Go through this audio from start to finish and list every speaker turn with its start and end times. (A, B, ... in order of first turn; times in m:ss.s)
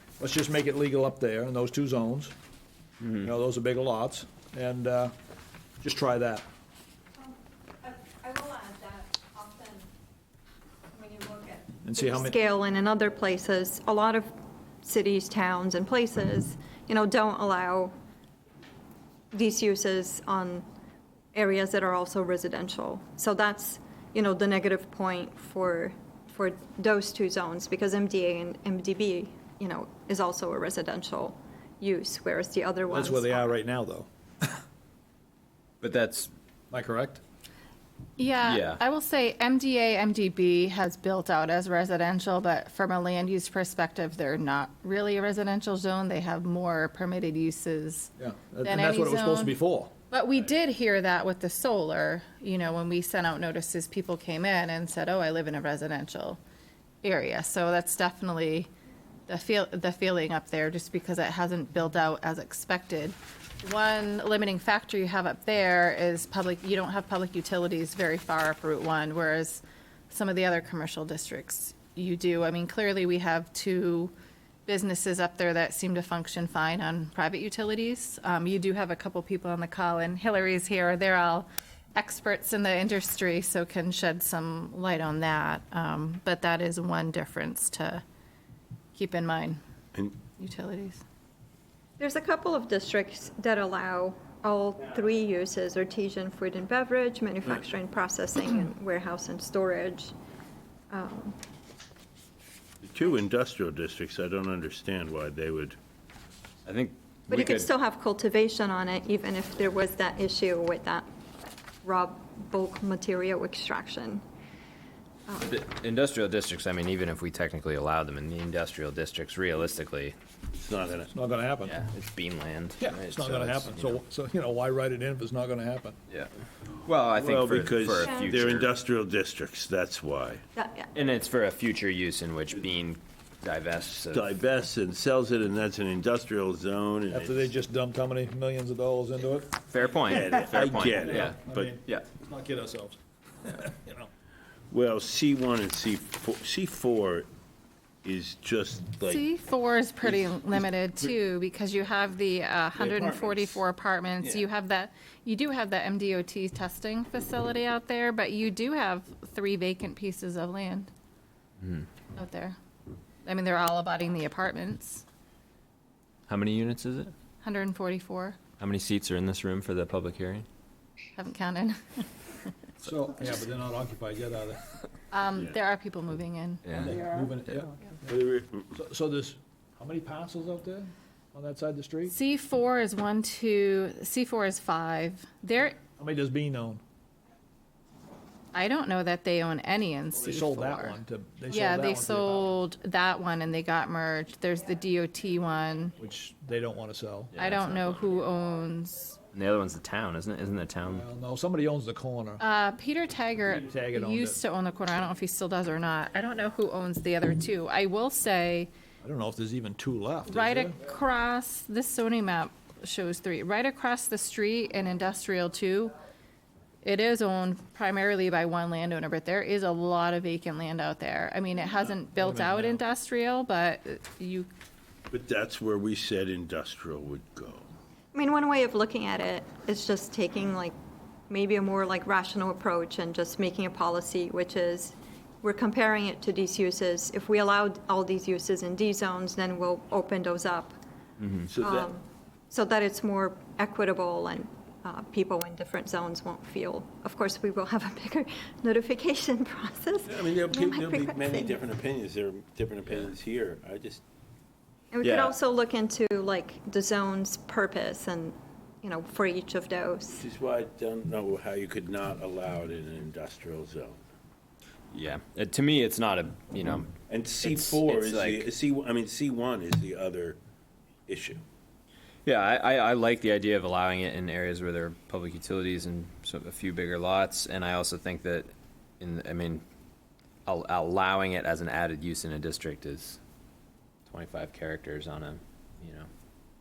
0:00.2-0:02.3 A
0:03.2-0:05.1 A
0:05.8-0:06.4 A
0:07.2-0:09.9 B
0:10.9-0:14.3 B
0:11.8-0:12.3 A
0:14.8-0:17.9 B
0:19.3-0:20.6 B
0:21.3-0:33.5 B
0:32.9-0:34.6 A
0:35.8-0:36.3 C
0:36.7-0:37.2 A
0:38.2-0:49.6 D
0:38.4-0:38.8 C
0:48.2-0:49.9 A
0:50.1-0:56.4 D
0:57.0-0:58.7 D
0:59.3-1:14.1 D
1:14.6-1:28.0 D
1:28.9-1:29.6 D
1:30.4-1:31.0 D
1:32.0-1:40.1 B
1:40.9-1:41.4 B
1:42.8-1:45.8 E
1:46.6-1:47.7 C
1:47.3-1:51.1 B
1:51.8-1:54.2 B
1:55.4-2:00.2 C
2:00.5-2:01.1 E
2:01.1-2:01.8 A
2:01.6-2:04.0 C
2:02.8-2:06.0 A
2:06.8-2:08.7 C
2:07.2-2:10.4 E
2:08.0-2:08.3 B
2:10.6-2:10.9 B
2:10.9-2:14.3 C
2:14.1-2:17.5 E
2:17.1-2:19.6 A
2:19.7-2:22.0 C
2:20.1-2:21.7 E
2:21.1-2:24.1 A
2:24.7-2:27.3 E
2:28.0-2:29.2 E
2:29.1-2:40.9 D
2:32.8-2:33.6 E
2:34.2-2:34.5 E
2:41.6-2:41.9 C
2:42.1-2:42.6 D
2:43.2-2:45.0 D
2:46.3-2:47.1 C
2:47.4-2:48.5 D
2:48.5-2:50.4 C
2:51.2-2:52.5 D
2:52.8-2:54.6 A
2:55.1-2:56.7 D
2:56.6-2:56.9 C
2:56.7-2:58.2 A
2:58.1-2:58.6 E
2:58.7-3:02.2 A
3:02.1-3:05.8 D
3:06.0-3:06.8 A
3:08.5-3:16.0 D
3:10.2-3:12.5 A
3:16.0-3:17.4 A
3:17.3-3:18.1 C
3:17.4-3:19.2 D
3:19.3-3:21.0 C
3:20.9-3:22.4 A
3:22.4-3:28.7 D
3:23.7-3:24.4 A
3:29.0-3:30.8 A
3:30.3-3:36.0 D
3:36.8-3:44.5 D
3:42.2-3:42.8 A
3:45.1-3:47.7 E
3:48.1-3:50.7 B
3:51.3-4:00.8 B
4:01.2-4:01.5 C
4:01.5-4:01.9 E
4:01.6-4:11.6 B
4:10.0-4:14.0 E
4:14.9-4:20.2 B
4:15.0-4:15.3 C
4:20.2-4:24.0 E
4:24.9-4:28.5 C
4:27.1-4:30.4 E
4:31.1-4:31.4 E
4:32.2-4:39.6 C
4:40.5-4:43.2 C
4:44.0-4:46.1 C